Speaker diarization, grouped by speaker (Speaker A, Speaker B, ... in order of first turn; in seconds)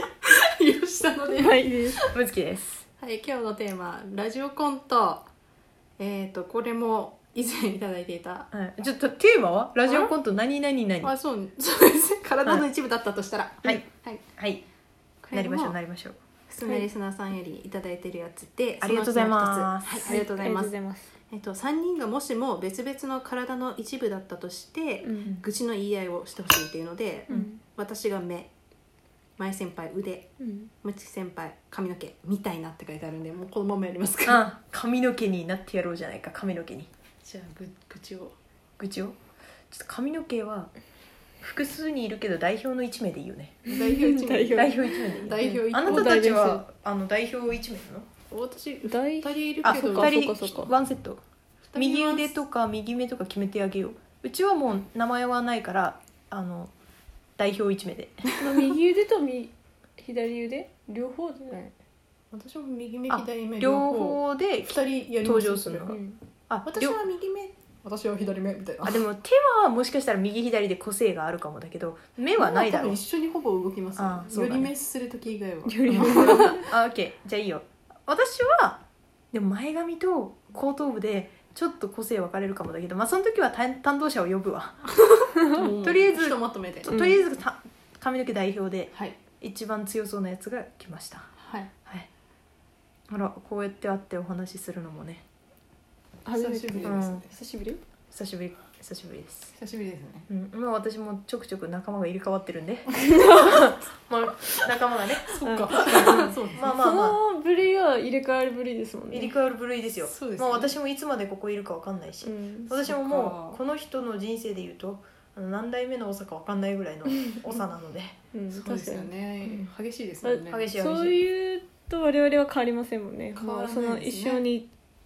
Speaker A: 0.2-2.1, 3.0-5.3, 6.0-8.5, 9.8-10.1, 11.0-14.2, 15.2-15.8, 16.5-28.5, 29.4-30.3, 30.8-34.5, 37.2-38.4, 43.6-46.3, 48.3-50.7, 51.7-52.4, 62.3-65.9, 66.6-69.0, 72.4-76.6, 85.1-87.0, 88.9-89.2, 91.4-91.7, 96.3-97.3, 99.5-100.3, 105.3-106.7, 110.0-110.7, 112.8-113.6, 118.5-120.6, 123.3-124.4
Speaker B: 1.3-2.0, 16.6-16.9, 20.0-21.1, 25.0-25.4, 27.3-27.6, 30.4-30.7, 43.6-46.6, 48.9-50.7, 58.4-61.7, 65.9-66.2, 75.6-76.7, 86.9-87.2, 96.2-97.8, 103.0-103.6, 105.4-109.3, 112.2-112.8, 118.3-119.7, 120.2-124.7
Speaker C: 2.1-2.8, 8.5-11.1, 14.3-14.6, 15.3-16.2, 18.8-20.2, 34.2-36.9, 38.8-39.2, 39.7-40.7, 41.4-43.6, 44.5-48.1, 49.6-51.2, 51.8-56.7, 57.4-58.3, 63.1-67.0, 68.8-73.0, 74.0-74.7, 75.9-85.0, 85.6-91.3, 93.1-95.2, 96.8-97.2, 98.1-99.5, 100.3-107.2, 109.1-118.2, 120.5-121.2